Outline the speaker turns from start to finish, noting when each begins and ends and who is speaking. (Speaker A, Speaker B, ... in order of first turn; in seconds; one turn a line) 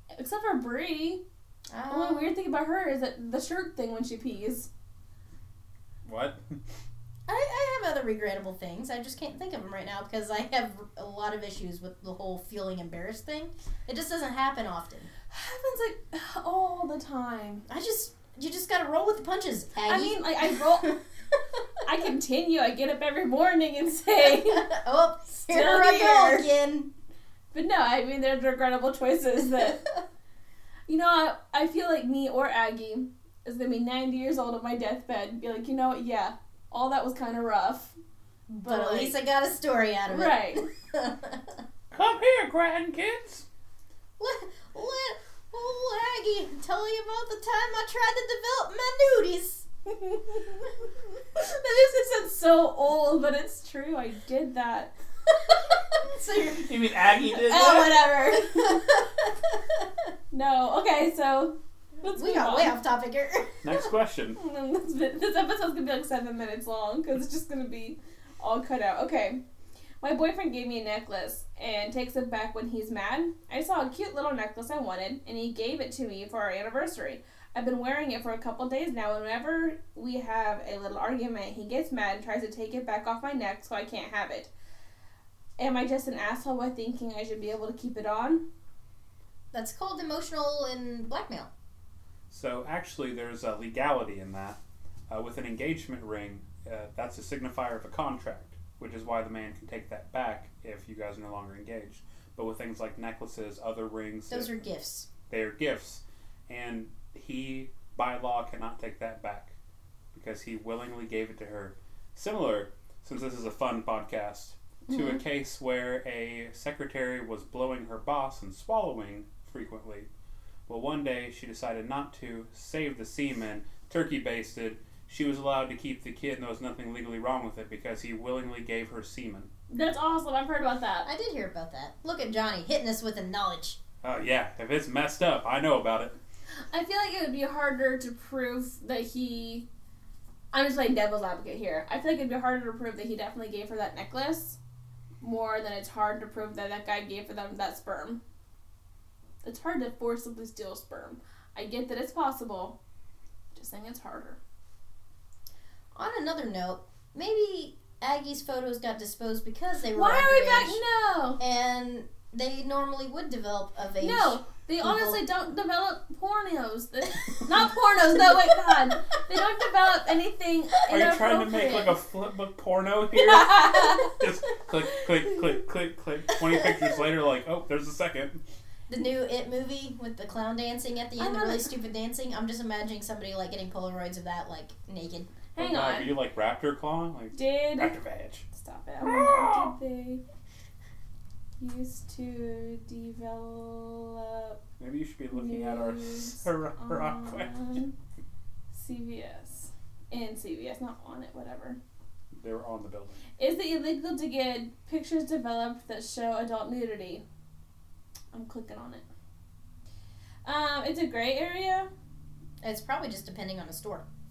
Speaker A: 0.1-1.2
Speaker B: 1.7-2.3
Speaker A: 1.9-4.7
Speaker C: 6.0-6.6
Speaker B: 7.3-15.1
Speaker A: 15.3-17.6
Speaker B: 17.7-21.6
Speaker A: 19.8-20.9
Speaker A: 21.8-24.7
Speaker B: 24.2-26.9
Speaker A: 25.5-26.5
Speaker A: 27.5-29.8
Speaker B: 29.6-29.8
Speaker A: 30.9-38.0
Speaker A: 38.5-39.1
Speaker B: 38.6-41.6
Speaker A: 40.1-40.7
Speaker C: 41.9-43.4
Speaker B: 44.2-49.6
Speaker A: 49.9-54.9
Speaker B: 56.0-60.1
Speaker C: 56.6-57.9
Speaker A: 57.5-58.9
Speaker A: 60.3-62.7
Speaker B: 62.1-63.8
Speaker C: 63.6-64.4
Speaker A: 64.3-69.4
Speaker A: 70.0-84.5
Speaker A: 85.6-88.4
Speaker B: 89.5-91.5
Speaker C: 92.3-94.6
Speaker C: 95.1-104.5
Speaker B: 104.3-105.1
Speaker C: 105.3-109.5
Speaker C: 110.1-120.1
Speaker A: 114.9-115.2
Speaker C: 120.7-129.5
Speaker A: 129.7-131.1
Speaker B: 131.0-133.8
Speaker C: 134.0-136.2
Speaker A: 136.7-139.7
Speaker A: 140.5-144.6
Speaker A: 145.2-148.2
Speaker A: 149.4-152.8
Speaker A: 153.5-154.4
Speaker B: 155.9-160.8
Speaker A: 159.9-161.4
Speaker B: 161.4-165.2
Speaker A: 164.0-171.9
Speaker B: 168.1-169.0
Speaker C: 170.9-178.4
Speaker A: 173.2-174.1
Speaker B: 176.3-177.0
Speaker B: 178.9-185.3
Speaker A: 181.2-181.7
Speaker A: 185.5-186.1
Speaker C: 185.6-188.4
Speaker A: 187.3-187.9
Speaker A: 188.5-190.2
Speaker C: 189.0-189.7
Speaker A: 191.6-194.6
Speaker C: 194.8-197.8
Speaker A: 195.3-197.9
Speaker A: 198.7-201.8
Speaker C: 202.3-203.2
Speaker A: 203.4-207.2
Speaker A: 208.3-209.0
Speaker A: 210.4-211.9
Speaker B: 212.6-214.0